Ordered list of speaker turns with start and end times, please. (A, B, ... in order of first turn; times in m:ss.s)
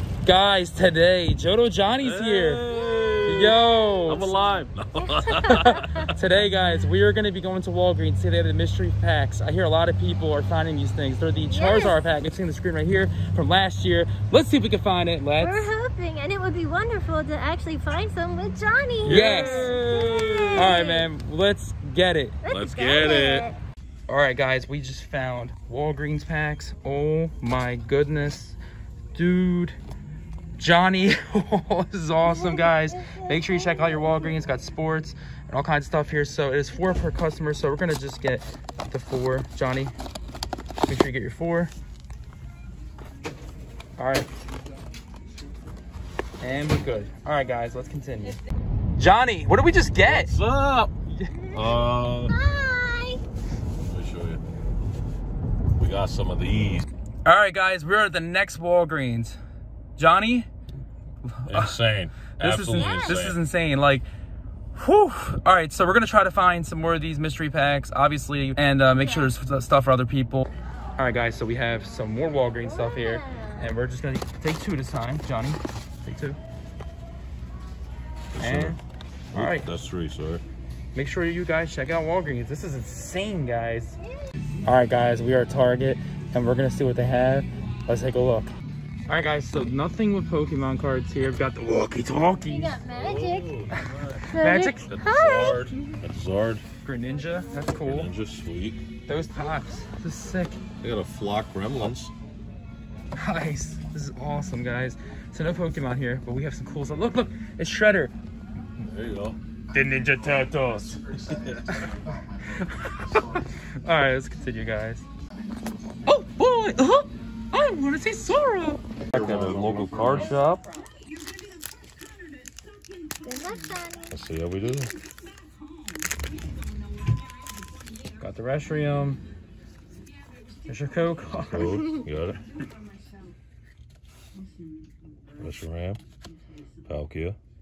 0:00.2-0:02.6 A
0:02.0-0:06.2 B
0:02.6-0:06.1 C
0:03.2-0:04.2 A
0:05.4-0:15.6 A
0:11.5-0:12.0 C
0:15.4-0:21.1 C
0:19.0-0:20.8 B
0:19.0-0:22.4 A
0:22.4-0:23.6 C
0:22.5-0:23.5 B
0:24.1-0:28.6 A
0:29.1-0:29.8 A
0:30.6-0:39.9 A
0:32.2-0:34.3 C
0:40.8-0:41.7 A
0:44.0-0:44.3 A
0:46.4-0:48.4 A
0:48.9-0:50.3 A
0:50.0-0:51.0 B
0:51.4-0:53.2 C
0:51.5-0:52.4 B
0:53.9-0:54.4 B
0:55.8-0:56.9 B
0:57.2-0:59.4 A
1:00.0-1:00.5 A
1:01.2-1:01.7 A
1:01.5-1:03.4 B
1:02.4-1:04.0 A
1:02.7-1:03.2 C
1:04.7-1:16.4 A
1:09.0-1:09.3 C
1:12.6-1:13.7 C
1:18.3-1:18.8 B
1:18.4-1:18.8 A
1:19.3-1:19.7 A
1:19.3-1:20.4 B
1:20.9-1:24.0 A
1:24.0-1:24.3 C
1:24.6-1:28.5 A
1:29.1-1:32.8 A
1:32.4-1:33.5 C
1:32.9-1:34.2 B
1:34.2-1:36.0 C
1:34.2-1:34.9 A
1:34.9-1:36.6 B
1:36.8-1:38.1 A
1:37.8-1:38.8 B
1:39.0-1:40.6 A
1:40.8-1:42.1 B
1:43.2-1:48.1 A
1:48.8-1:49.4 B
1:49.7-1:51.9 A
1:51.3-1:51.6 B
1:52.4-1:55.0 A
1:56.0-2:00.2 A
1:59.1-2:00.6 B
2:03.2-2:04.1 C
2:04.1-2:04.9 B
2:08.2-2:09.2 A
2:10.6-2:11.8 A
2:11.4-2:12.4 B
2:15.4-2:16.0 B
2:16.9-2:17.4 B